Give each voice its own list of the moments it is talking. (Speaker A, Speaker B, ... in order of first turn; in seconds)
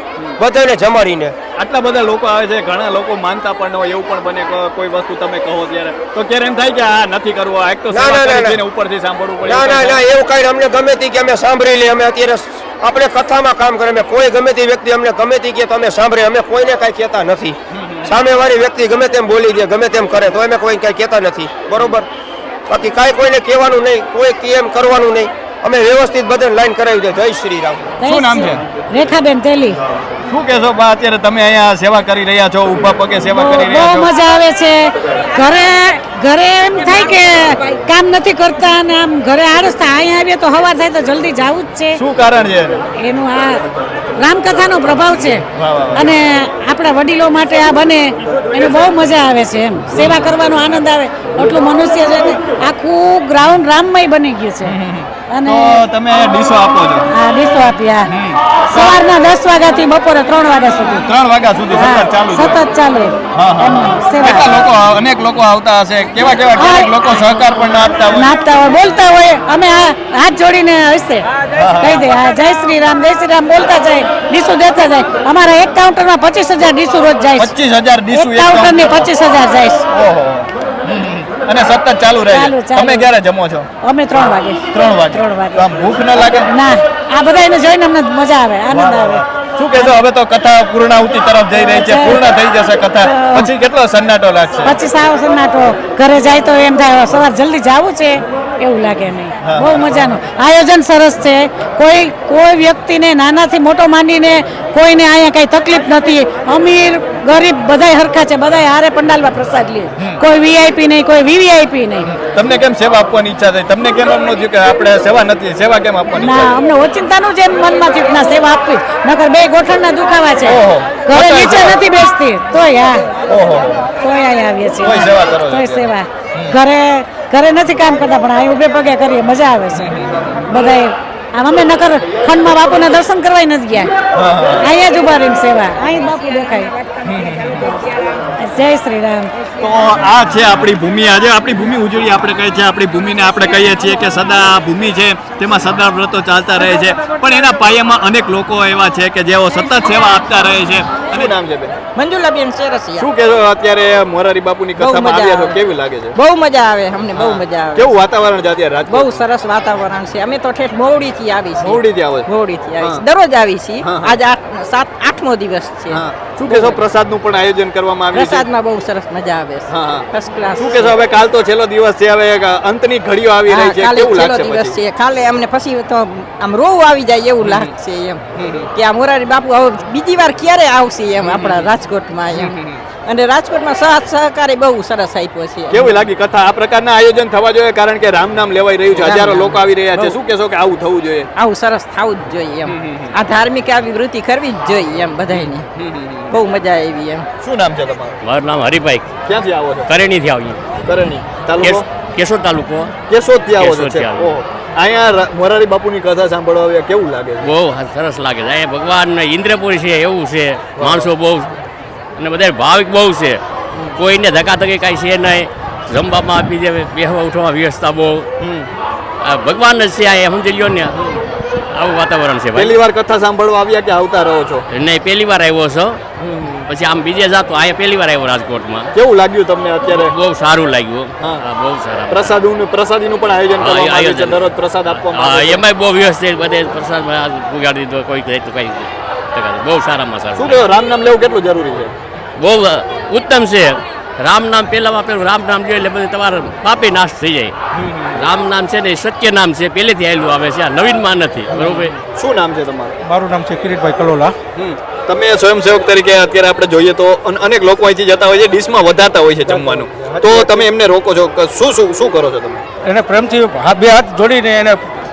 Speaker A: 0.4-1.3, 7.9-8.6, 9.4-22.1, 22.7-27.9
Speaker B: 1.6-10.0, 17.7-18.2, 28.0-28.6, 30.3-34.1, 41.9-42.8, 45.5-46.1, 48.6-48.9, 49.9-50.4, 54.6-57.1, 58.1-59.0, 60.9-62.6, 63.3-68.3, 71.5-72.1, 77.4-79.1, 79.9-86.5, 88.7-94.8, 99.4-100.0, 110.0-110.2, 112.0-116.5, 120.5-121.8, 123.3-123.8, 124.8-126.5, 129.7-130.4, 134.1-134.7, 137.0-137.8, 139.6-151.7, 153.0-156.1, 157.1-159.2, 161.6-163.0, 163.8-164.2, 165.9-168.5, 169.7-174.8, 177.4-177.7, 178.3-178.7, 181.2-181.7, 182.3-182.8, 185.7-191.3, 192.7-193.1, 195.8-196.3, 197.4-198.2, 199.2-199.9, 200.8-201.8, 203.1-207.5, 210.8-211.1, 218.4-218.7, 220.9-221.2, 222.5-224.6, 226.2-226.7, 228.9-230.1, 232.1-235.6, 240.3-241.9, 247.7-248.2, 252.1-252.9, 254.6-262.6
Speaker C: 28.0-29.8, 33.3-42.0, 43.0-43.6, 44.2-45.4, 45.9-54.8, 55.3-55.8, 57.1-58.1, 58.7-61.1, 61.7-64.5, 66.5-67.2, 68.1-77.5, 78.1-79.8, 82.2-83.1, 83.8-90.0, 91.5-92.2, 93.0-93.5, 94.6-112.1, 116.1-123.1, 124.0-133.9, 134.6-136.8, 138.4-139.4
Speaker D: 151.9-153.1, 154.8-155.6, 156.1-158.0, 158.9-166.8, 168.1-170.9, 173.4-178.2, 178.7-185.9, 188.9-190.2, 191.3-195.7, 196.3-197.3
Speaker E: 198.2-199.1, 199.9-200.6, 201.6-202.9, 203.6-204.4, 207.4-211.5, 212.2-213.4, 213.9-218.2, 219.2-220.9, 221.7-222.8, 224.7-226.0, 226.7-228.9, 229.9-232.4, 233.6-240.7, 242.4-247.5, 248.1-251.9
Speaker F: 253.0-254.3, 262.8-264.8